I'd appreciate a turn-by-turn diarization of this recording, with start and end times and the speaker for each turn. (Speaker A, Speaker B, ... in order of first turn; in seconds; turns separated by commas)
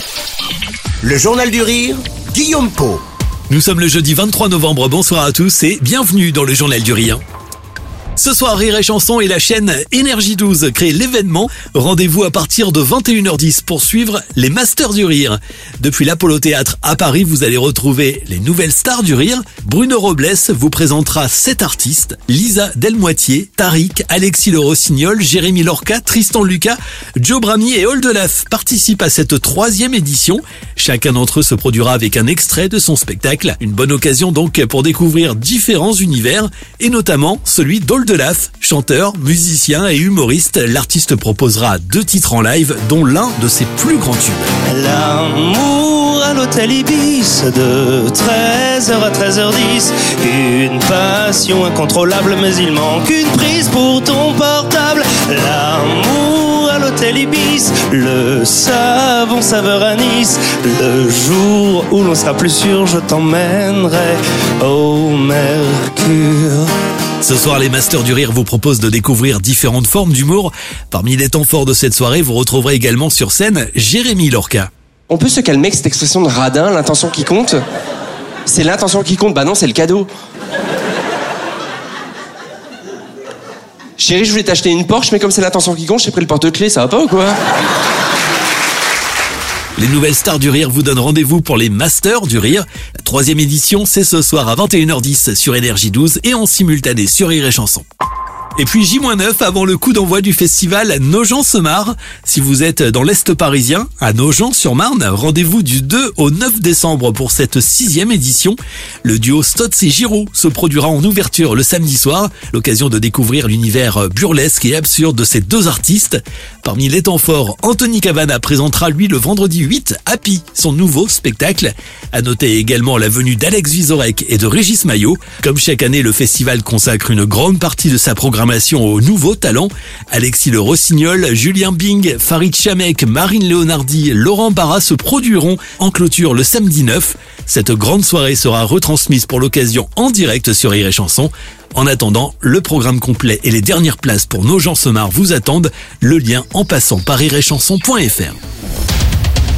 Speaker A: 1.0-3.0, Speaker B: 3.5-7.2, Speaker B: 8.2-44.5, Speaker C: 44.7-66.7, Speaker B: 67.2-74.7, Speaker D: 75.1-77.6, Speaker D: 78.5-80.1, Speaker D: 84.0-87.4, Speaker B: 89.8-97.8, Speaker B: 98.6-148.4